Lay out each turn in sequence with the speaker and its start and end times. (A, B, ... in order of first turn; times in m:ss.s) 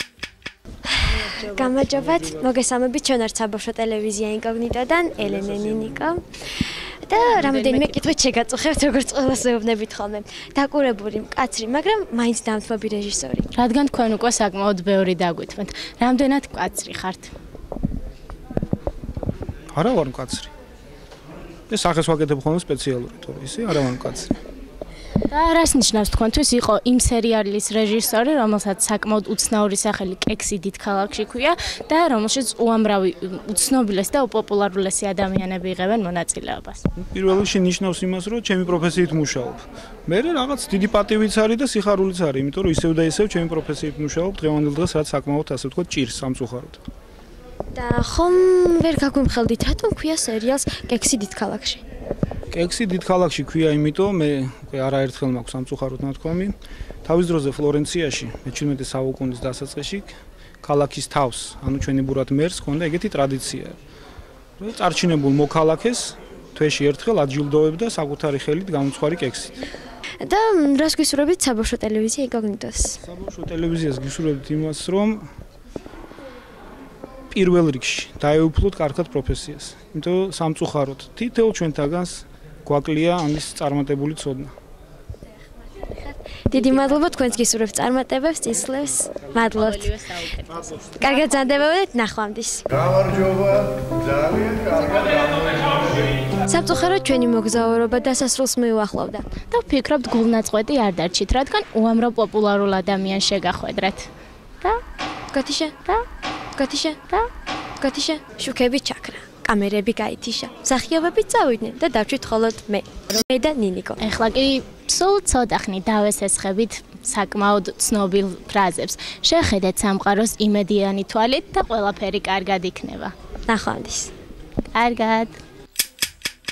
0:00.9-0:13.5 A
0:07.1-0:08.0 B
0:13.5-0:17.3 B
0:19.7-0:20.5 C
0:21.7-0:24.3 C
0:25.3-0:36.8 B
0:37.0-0:46.8 C
0:47.7-0:51.8 A
0:52.5-1:03.8 C
1:04.6-1:09.6 C
1:10.2-1:13.0 A
1:13.0-1:15.3 C
1:17.3-1:24.5 C
1:26.5-1:30.0 A
1:26.6-1:27.2 B
1:29.5-1:31.2 B
1:30.8-1:33.4 A
1:36.4-1:39.2 A
1:39.5-1:44.1 B
1:45.3-1:46.0 A
1:46.5-1:54.0 A
1:54.0-2:03.1 B
2:03.5-2:04.1 A
2:04.7-2:05.4 B